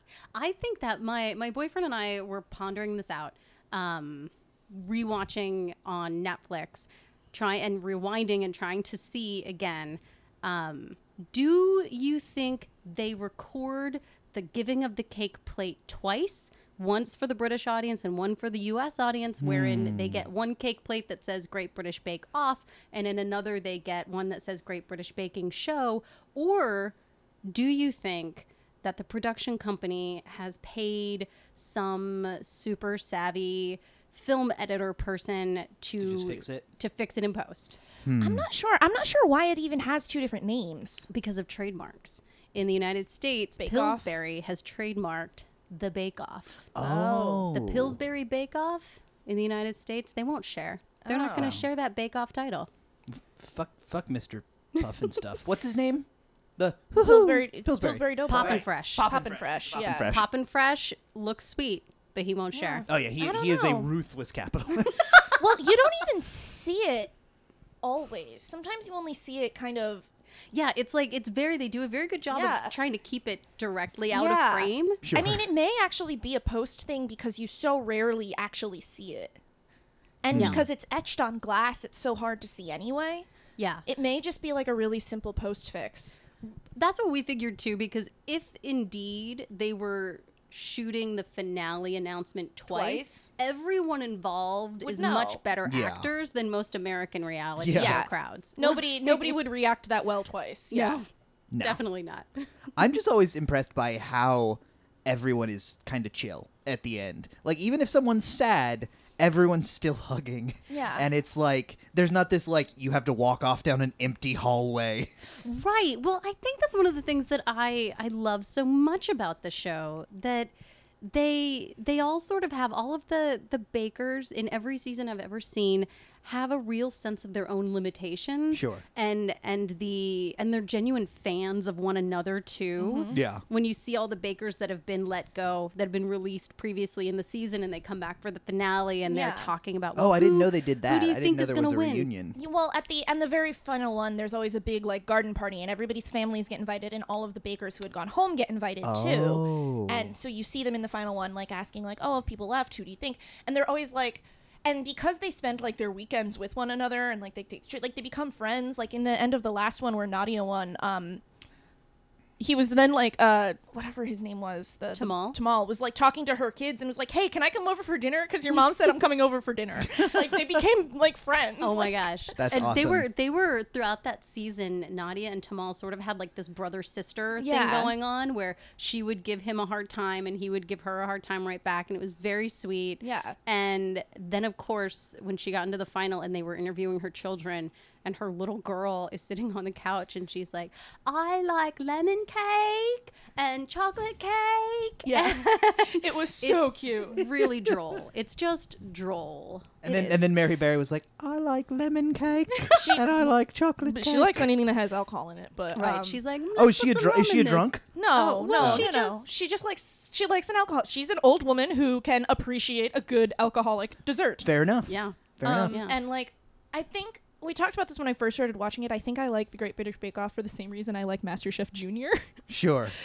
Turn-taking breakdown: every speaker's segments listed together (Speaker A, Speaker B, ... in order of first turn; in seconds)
Speaker A: 0.3-26.9, 27.5-37.8, 41.1-46.7, 47.5-52.7, 58.3-59.1, 60.0-62.9, 70.5-75.0, 83.6-83.8, 86.8-99.4, 100.7-101.1, 101.6-102.5, 115.4-142.1, 164.9-165.4, 171.6-200.3, 205.7-209.3, 214.9-216.0
Speaker B: 19.4-20.2, 36.0-36.7, 38.0-38.5, 46.8-48.0, 51.4-51.6, 53.1-60.3, 62.9-65.5, 75.0-75.4, 80.3-80.7, 95.6-96.1, 97.6-98.0, 101.5-101.8, 102.8-115.1, 128.5-128.8, 133.1-133.4, 140.0-142.4, 148.8-150.1, 172.4-173.1, 199.8-204.5, 206.6-207.8, 208.6-208.9, 214.4-215.9, 222.5-222.9
Speaker C: 38.2-41.1, 43.6-44.2, 46.8-47.5, 51.0-51.6, 57.0-60.2, 62.5-63.9, 65.3-67.1, 67.8-70.1, 72.3-72.8, 74.1-79.4, 80.2-83.3, 83.9-86.2, 92.7-93.3, 94.8-95.4, 97.7-101.0, 110.7-111.1, 132.8-133.2, 139.1-139.5, 142.3-161.2, 162.4-172.0, 177.4-178.0, 183.0-183.4, 195.1-197.5, 202.7-203.1, 203.8-206.2, 207.9-214.5, 215.4-222.3